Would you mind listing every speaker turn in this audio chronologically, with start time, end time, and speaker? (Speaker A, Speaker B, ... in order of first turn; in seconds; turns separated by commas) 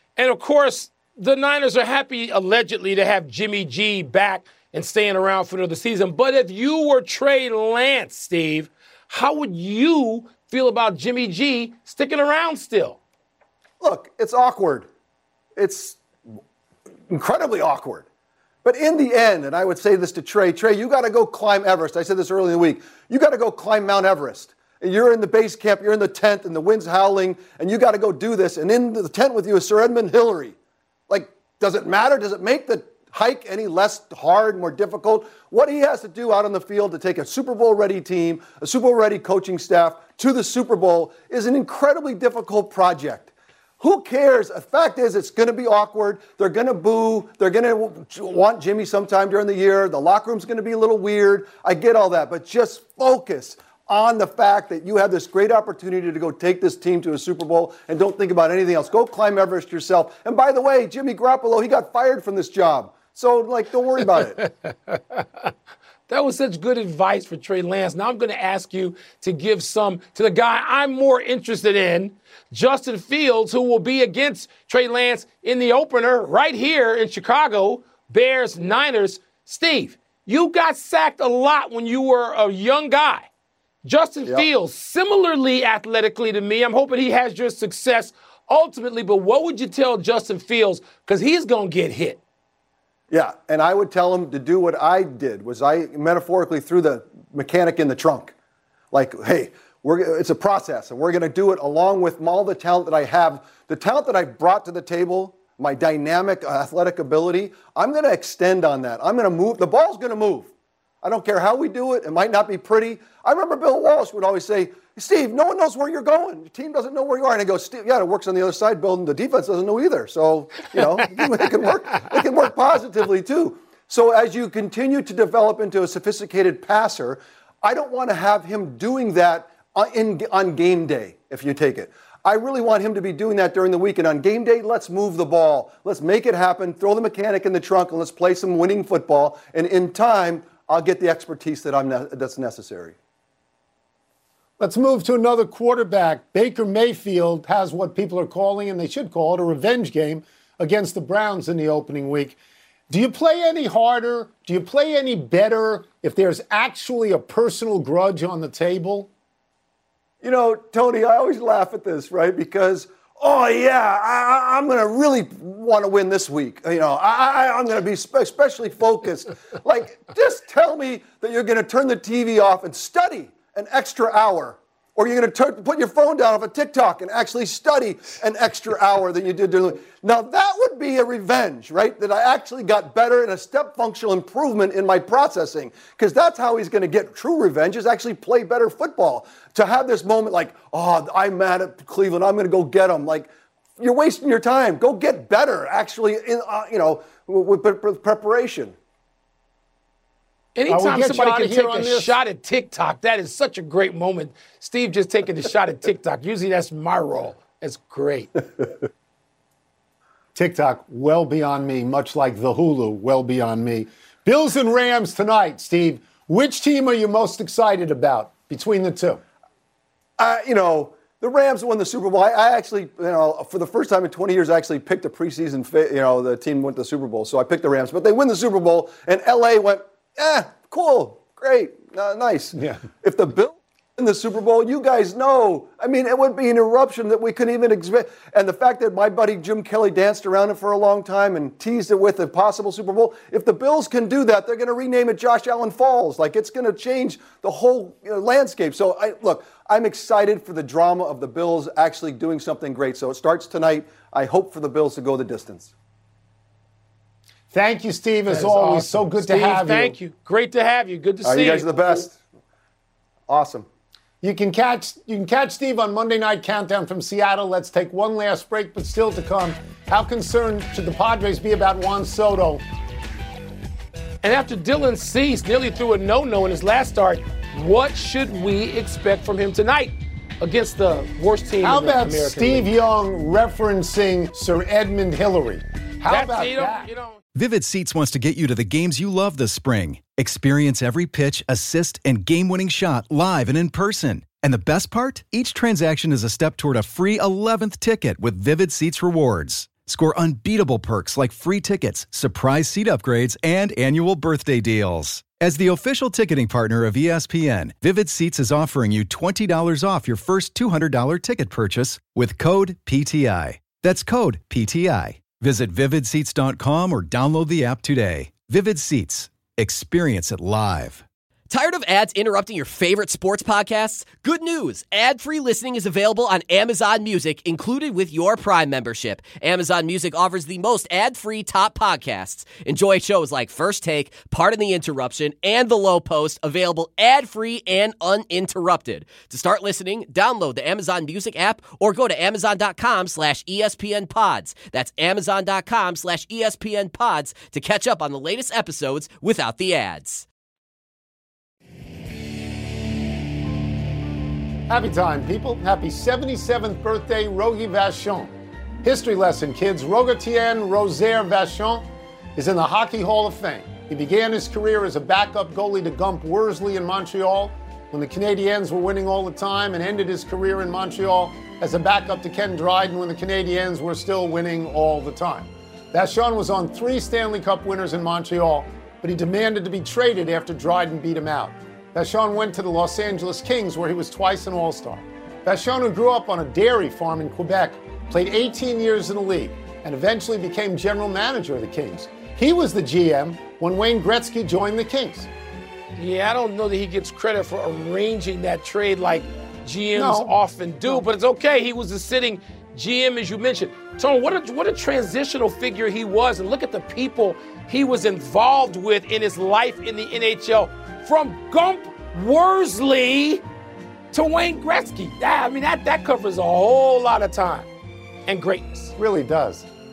Speaker A: 0.1-13.0, Speaker B: 13.8-14.9, Speaker B: 15.6-16.0, Speaker B: 17.1-18.1, Speaker B: 18.6-30.6, Speaker B: 31.1-64.4, Speaker A: 64.6-65.2, Speaker A: 66.1-83.3, Speaker A: 83.8-92.2, Speaker B: 93.1-98.3, Speaker B: 98.9-110.5, Speaker B: 111.0-142.9, Speaker C: 144.6-152.4, Speaker C: 152.9-159.1, Speaker B: 160.2-198.7, Speaker A: 200.5-208.4, Speaker C: 200.7-202.2, Speaker C: 210.3-219.2, Speaker B: 220.2-255.7, Speaker C: 232.5-232.8, Speaker C: 257.5-260.0, Speaker A: 258.3-262.0, Speaker B: 261.2-262.2, Speaker B: 263.3-263.7, Speaker C: 264.2-272.6, Speaker A: 274.2-282.7, Speaker C: 281.6-286.9, Speaker A: 286.1-287.2, Speaker D: 287.3-321.0, Speaker E: 321.5-350.2, Speaker C: 354.7-395.3, Speaker A: 395.9-413.4, Speaker C: 399.9-401.0, Speaker A: 414.1-417.7, Speaker A: 418.2-418.9, Speaker C: 419.0-419.6